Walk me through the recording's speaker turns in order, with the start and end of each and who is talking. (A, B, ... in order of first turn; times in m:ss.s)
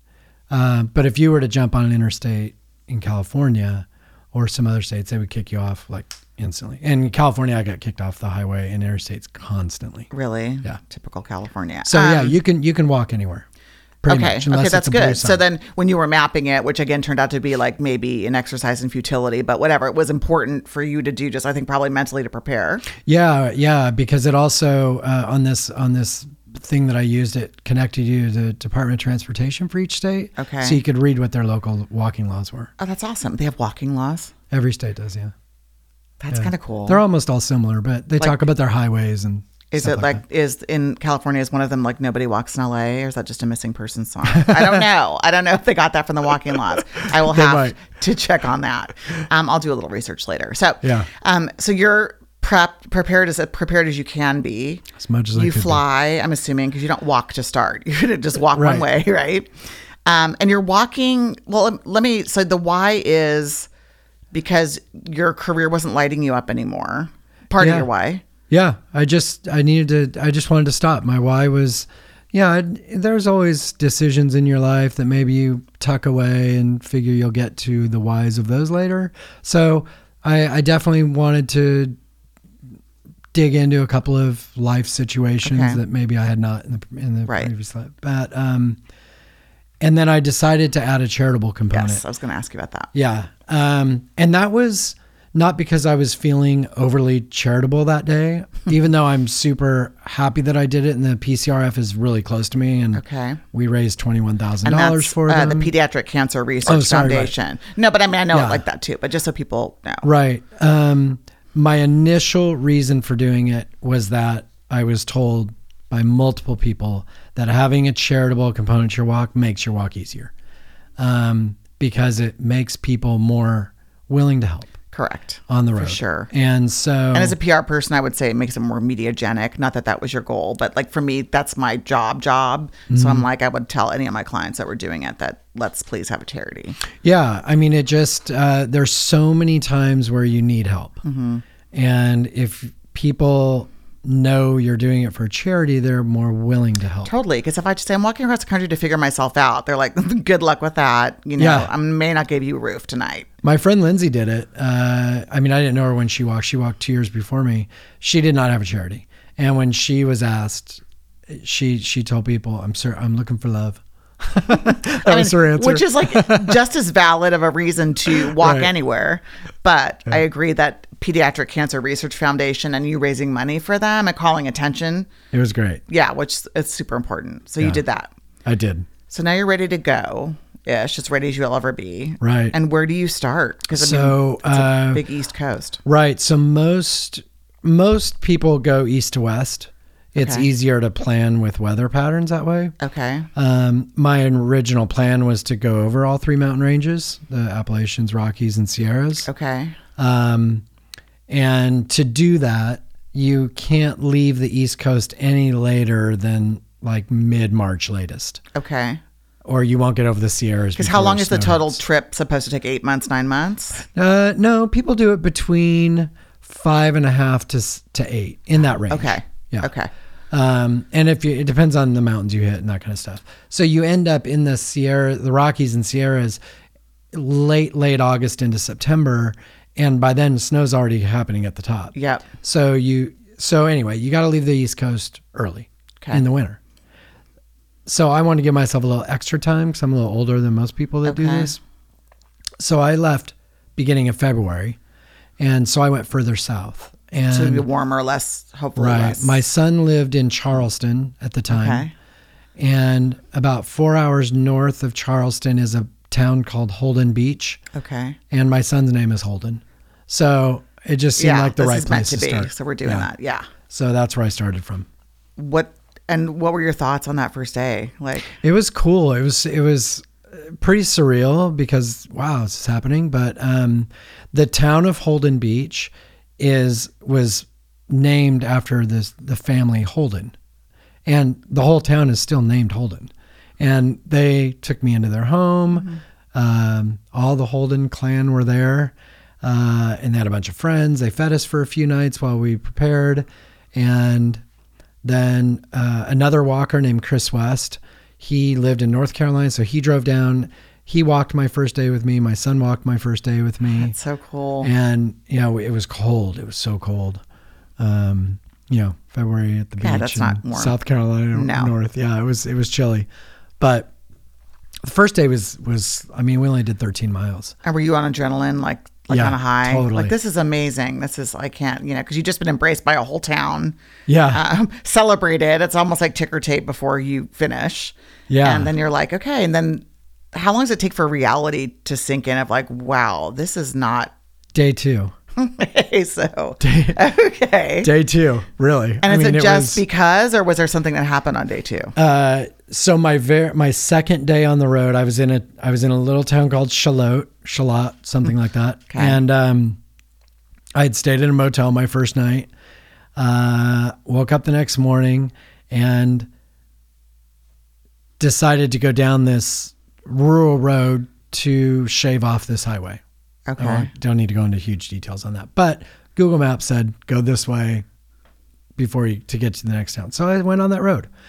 0:00.5-0:10.1 A
0:10.1-0:12.4 B
0:11.8-0:13.4 A
0:14.0-0:15.4 A
0:14.1-0:22.8 B
0:23.0-0:32.7 A
0:30.4-0:30.8 B
0:32.8-0:34.3 B
0:34.5-0:35.3 A
0:36.2-0:37.0 B
0:36.3-0:40.2 A
0:39.7-0:59.5 B
0:44.3-0:44.8 A
0:47.1-0:47.8 A
0:50.8-0:51.1 A
0:55.0-0:55.8 A
0:58.5-0:58.8 A
1:00.0-1:03.7 B
1:04.3-1:08.2 B
1:07.6-1:07.9 A
1:08.5-1:22.0 A
1:23.3-1:28.8 A
1:25.4-1:25.8 B
1:29.8-1:32.0 A
1:31.7-1:32.9 B
1:32.9-1:43.0 A
1:42.9-1:43.4 B
1:43.5-1:45.7 A
1:44.6-1:50.0 B
1:46.6-1:47.3 A
1:48.3-1:48.6 A
1:50.0-2:00.3 A
2:01.0-2:04.7 A
2:04.9-2:06.3 B
2:05.5-2:07.4 A
2:07.1-2:16.8 B
2:12.9-2:13.2 A
2:17.0-2:21.0 A
2:21.0-2:21.4 B
2:21.7-2:27.1 A
2:27.0-2:33.3 B
2:31.4-2:31.7 A
2:33.4-2:46.6 A
2:44.5-2:55.1 B
2:48.1-2:48.7 A
2:55.3-2:55.8 A
2:55.9-2:58.1 B
2:58.4-2:58.9 A
2:59.1-3:05.8 B
3:02.2-3:02.5 A
3:03.7-3:05.0 A
3:05.8-3:12.7 A
3:10.2-3:10.5 B
3:12.8-3:13.3 B
3:13.3-3:19.3 A
3:19.2-3:19.8 B
3:20.0-3:20.6 A
3:21.3-3:28.4 A
3:28.5-3:29.0 B
3:29.4-3:31.8 A
3:30.8-3:33.8 B
3:33.9-3:39.7 A
3:38.9-3:39.9 B
3:40.3-3:46.4 A
3:47.1-3:56.6 A
3:51.9-3:52.2 B
3:57.8-4:01.6 A
4:01.0-4:01.6 B
4:02.6-4:04.8 A
4:05.4-4:07.6 A
4:07.3-4:09.4 B
4:08.8-4:11.9 A
4:11.5-4:11.9 B
4:12.6-4:17.6 A
4:17.7-4:18.2 B
4:18.3-4:23.1 A
4:21.2-4:23.5 B
4:23.7-4:24.9 A
4:25.4-4:28.3 B
4:28.4-4:40.3 A
4:41.0-4:54.4 A
4:55.0-5:03.9 A
5:03.8-5:04.7 B
5:04.6-5:07.2 A
5:07.8-5:13.1 A
5:09.8-5:10.7 B
5:11.3-5:11.7 B
5:13.6-5:13.9 A
5:14.8-5:17.5 A
5:17.6-5:23.8 B
5:19.1-5:20.1 A
5:24.1-5:24.4 A
5:24.3-5:34.1 B
5:28.3-5:28.7 A
5:34.5-5:35.1 A
5:35.4-5:37.9 B
5:36.6-5:37.0 A
5:37.8-5:39.8 A
5:39.0-5:41.9 B
5:42.0-5:49.8 A
5:48.9-5:49.2 B
5:50.7-5:52.5 A
5:53.2-5:56.3 A
5:58.2-6:03.0 A
6:03.5-6:03.9 B
6:03.6-6:07.8 A
6:08.8-6:11.1 A